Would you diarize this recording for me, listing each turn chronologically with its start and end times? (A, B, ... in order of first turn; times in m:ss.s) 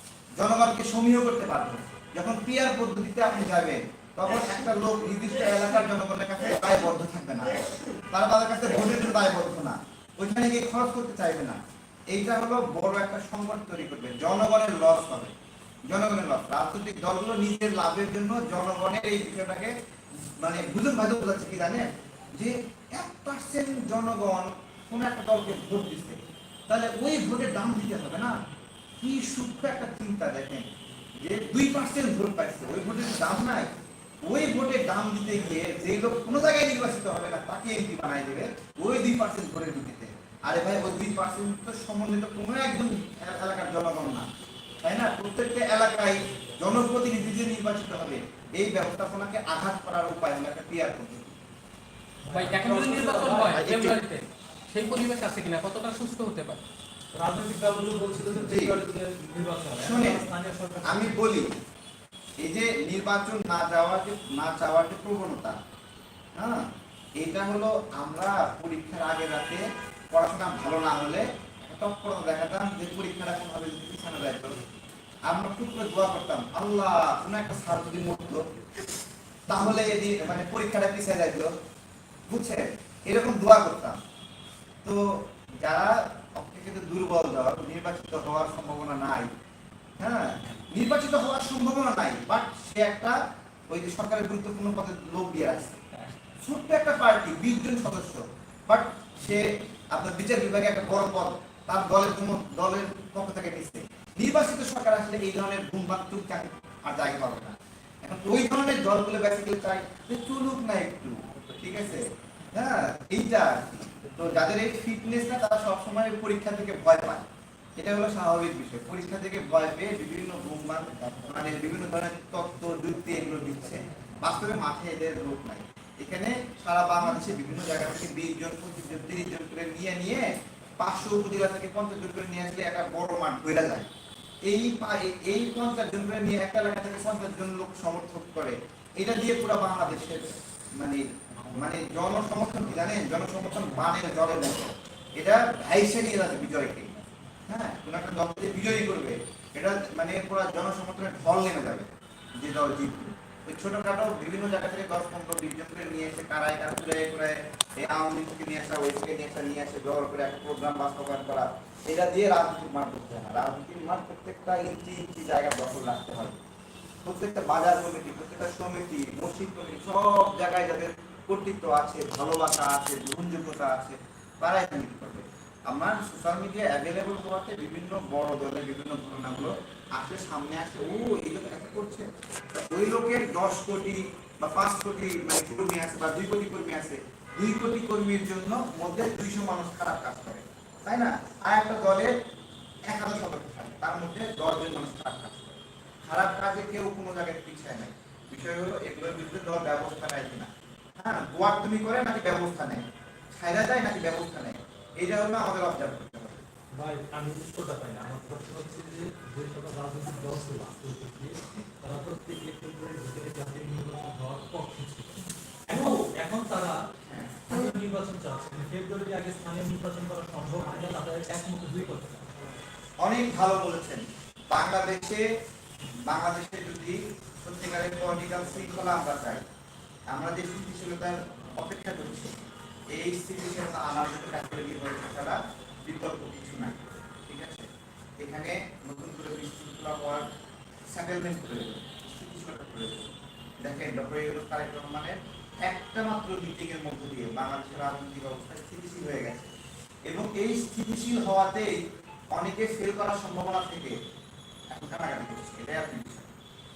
0:00.4-0:15.4 A
0:15.9-0:28.4 A
0:29.0-0:44.3 A
0:44.8-0:51.4 A
0:52.2-0:53.7 B
0:52.3-0:56.6 C
0:53.5-0:54.0 A
0:57.2-1:01.2 B
0:58.3-0:58.8 A
0:59.8-1:00.3 A
1:00.8-1:01.6 A
1:02.4-1:05.6 A
1:06.4-1:14.6 A
1:15.2-1:18.5 A
1:19.5-1:21.6 A
1:22.3-1:24.0 A
1:24.8-1:29.3 A
1:30.0-1:35.8 A
1:36.4-2:13.9 A
2:14.4-2:26.9 A
2:27.5-2:46.4 A
2:47.0-3:12.2 A
3:12.8-3:26.4 A
3:26.8-3:36.8 B
3:35.7-3:36.1 A
3:37.0-3:37.8 A
3:37.5-3:42.3 B
3:43.0-3:45.3 A
3:46.1-3:49.5 A
3:50.1-3:52.4 A
3:52.9-4:00.3 A
4:00.9-4:09.5 A
4:10.1-4:14.0 A
4:14.7-4:16.3 A